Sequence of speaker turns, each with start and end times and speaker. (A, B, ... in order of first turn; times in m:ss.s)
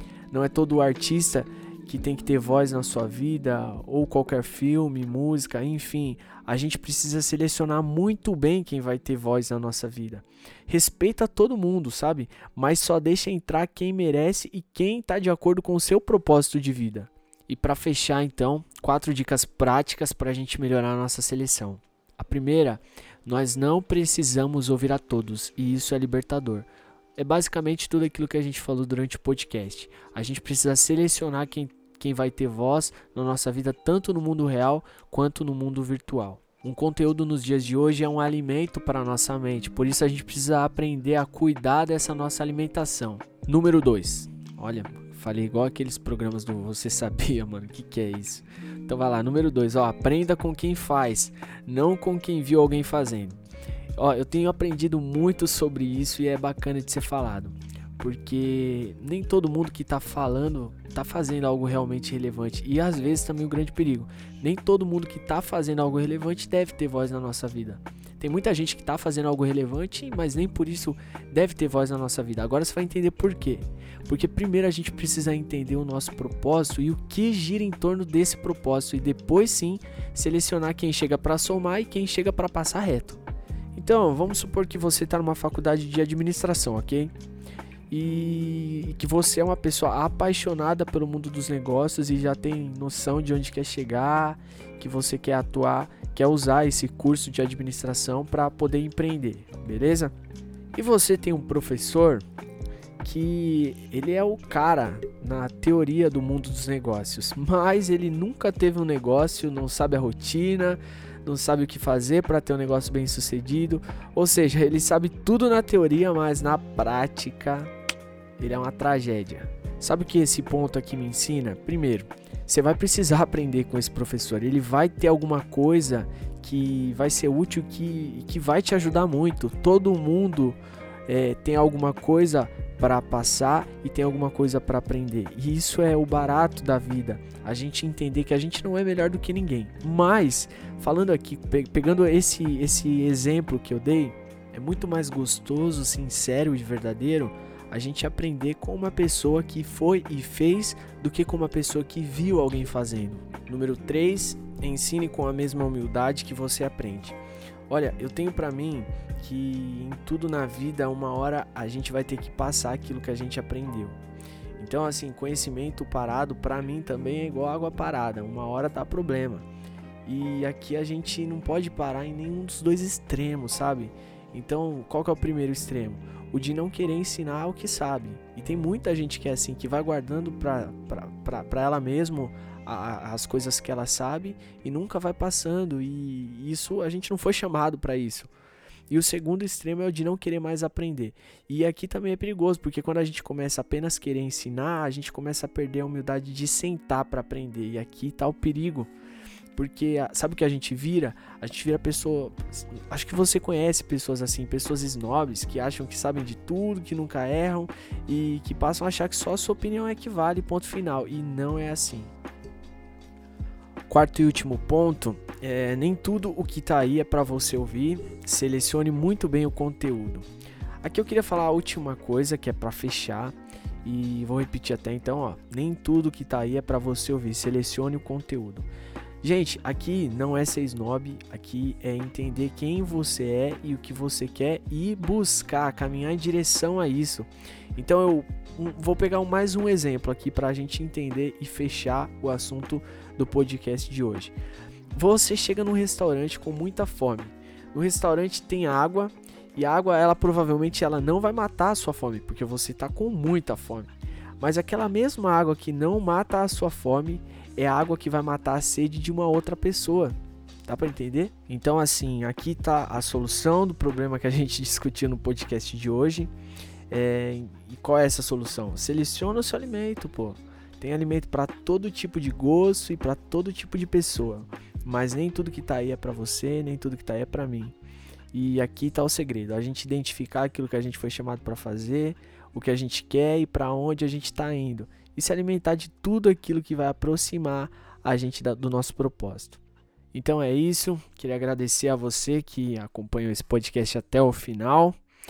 0:00.3-0:53.4 A
0:54.0-1:23.2 A
1:23.7-1:27.1 A
1:27.9-1:40.1 A
1:40.7-1:42.2 A
1:43.0-1:57.7 A
1:58.4-2:44.0 A
2:44.6-2:49.4 A
2:50.0-3:08.3 A
3:08.9-3:18.9 A
3:19.5-3:32.1 A
3:33.9-3:40.2 A
3:40.8-3:48.7 A
3:49.2-4:04.3 A
4:04.9-4:26.3 A
4:26.9-4:37.8 A
4:38.3-4:49.6 A
4:50.1-4:55.0 A